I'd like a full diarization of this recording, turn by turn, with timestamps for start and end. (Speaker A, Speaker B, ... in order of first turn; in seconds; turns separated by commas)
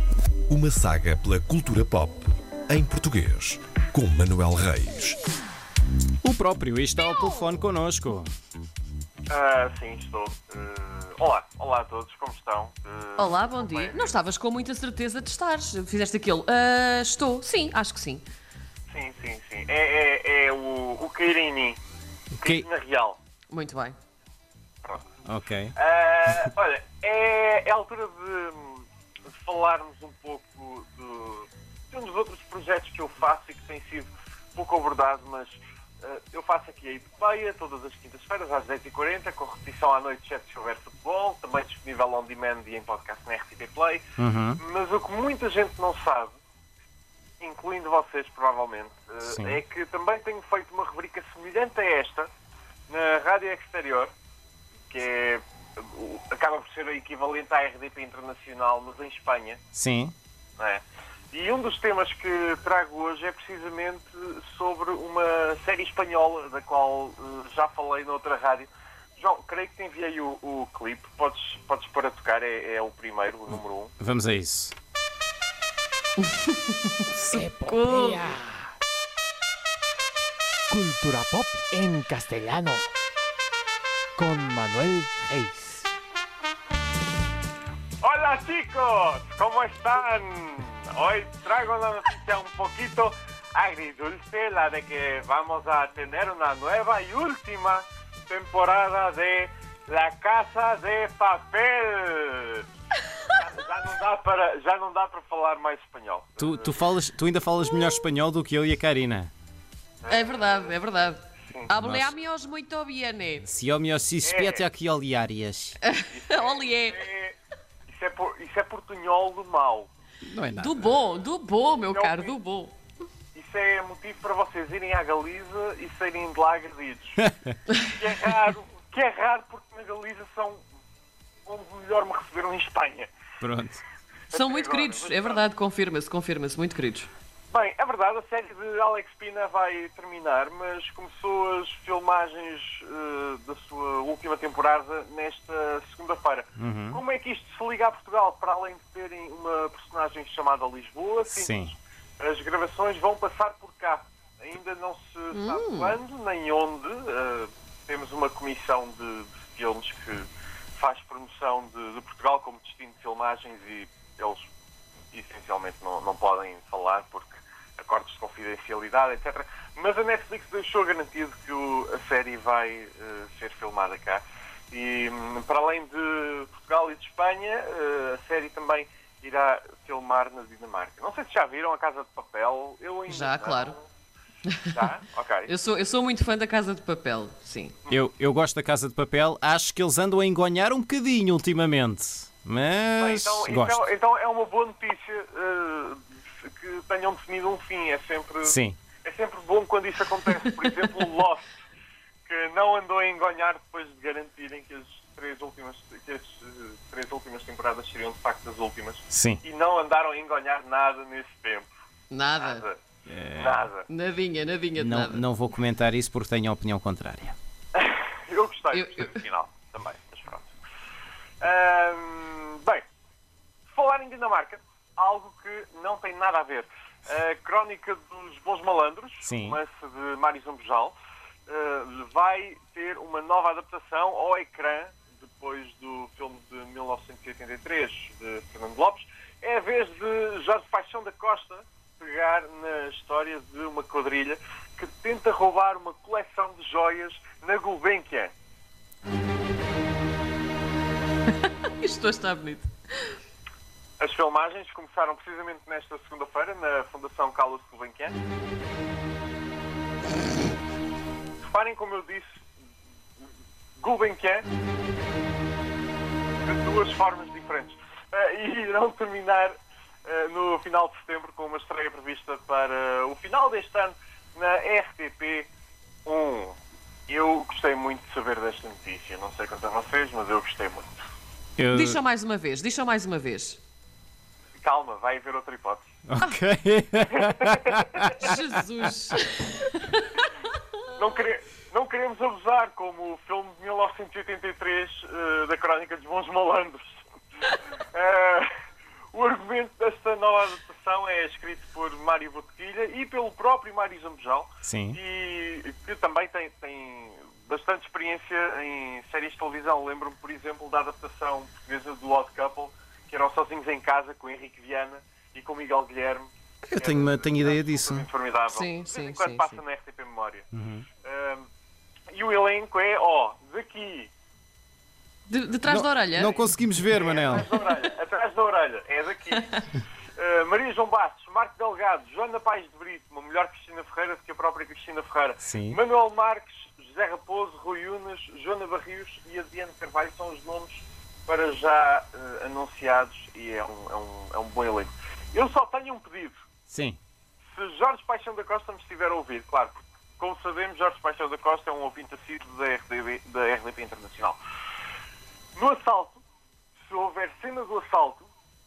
Speaker A: 0.5-5.2, Speaker B: 6.2-8.3, Speaker C: 9.3-14.1, Speaker D: 13.2-18.2, Speaker C: 18.9-21.8, Speaker B: 22.3-22.6, Speaker C: 22.4-23.2, Speaker D: 23.5-24.0, Speaker B: 25.2-25.7, Speaker C: 25.7-28.9, Speaker C: 29.4-44.0, Speaker C: 44.6-46.4, Speaker C: 47.4-52.3, Speaker C: 52.9-54.1, Speaker C: 54.9-59.6, Speaker B: 59.7-60.1, Speaker C: 60.6-73.9, Speaker B: 74.0-74.7, Speaker D: 76.3-78.3, Speaker E: 77.1-78.7, Speaker E: 80.7-82.9, Speaker E: 84.2-85.8, Speaker C: 88.0-102.6, Speaker C: 103.3-106.8, Speaker B: 106.4-109.3, Speaker C: 110.0-111.7, Speaker D: 110.1-113.5, Speaker B: 111.8-112.1, Speaker B: 113.5-115.8, Speaker C: 114.2-114.6, Speaker D: 115.8-117.0, Speaker C: 116.1-117.3, Speaker C: 117.9-119.9, Speaker B: 120.2-120.8, Speaker D: 120.5-122.7, Speaker C: 121.9-122.4, Speaker C: 123.3-127.2, Speaker C: 127.8-130.6, Speaker C: 131.4-133.1, Speaker B: 133.4-133.8, Speaker C: 134.3-135.4, Speaker D: 134.3-137.1, Speaker C: 137.5-151.6, Speaker B: 146.6-147.0, Speaker C: 152.2-164.4, Speaker D: 155.3-156.0, Speaker C: 165.1-183.8, Speaker D: 183.1-183.8, Speaker C: 184.7-185.5, Speaker D: 185.4-187.7, Speaker B: 187.9-193.8, Speaker C: 193.0-201.5, Speaker B: 198.4-198.8, Speaker C: 202.2-211.7, Speaker B: 209.1-209.4, Speaker D: 212.1-212.6, Speaker C: 212.4-212.8, Speaker B: 213.1-213.6, Speaker C: 213.3-213.9, Speaker D: 213.9-215.2, Speaker B: 214.8-217.3, Speaker C: 217.7-220.5, Speaker D: 218.7-219.2, Speaker C: 221.4-222.8, Speaker C: 223.7-230.9, Speaker B: 229.2-229.6, Speaker C: 231.5-248.3, Speaker D: 251.4-253.1, Speaker C: 254.0-258.1, Speaker C: 261.4-262.4, Speaker C: 263.8-264.5, Speaker C: 266.4-275.5, Speaker C: 276.0-276.6, Speaker C: 277.1-280.9, Speaker B: 281.6-281.9, Speaker D: 281.7-283.6, Speaker C: 284.6-285.9, Speaker B: 286.1-287.1, Speaker C: 287.1-288.1, Speaker D: 288.2-290.2, Speaker C: 291.0-297.0, Speaker C: 297.9-298.5, Speaker C: 299.1-320.4, Speaker B: 316.6-318.1, Speaker D: 318.5-319.5, Speaker B: 320.5-320.8, Speaker C: 321.0-321.5, Speaker C: 322.1-324.1, Speaker D: 325.3-327.4, Speaker B: 325.7-327.4, Speaker C: 326.9-329.5, Speaker C: 330.1-346.4, Speaker B: 335.4-335.8, Speaker B: 346.7-347.0, Speaker C: 347.5-354.4, Speaker C: 355.6-356.2, Speaker C: 356.9-358.3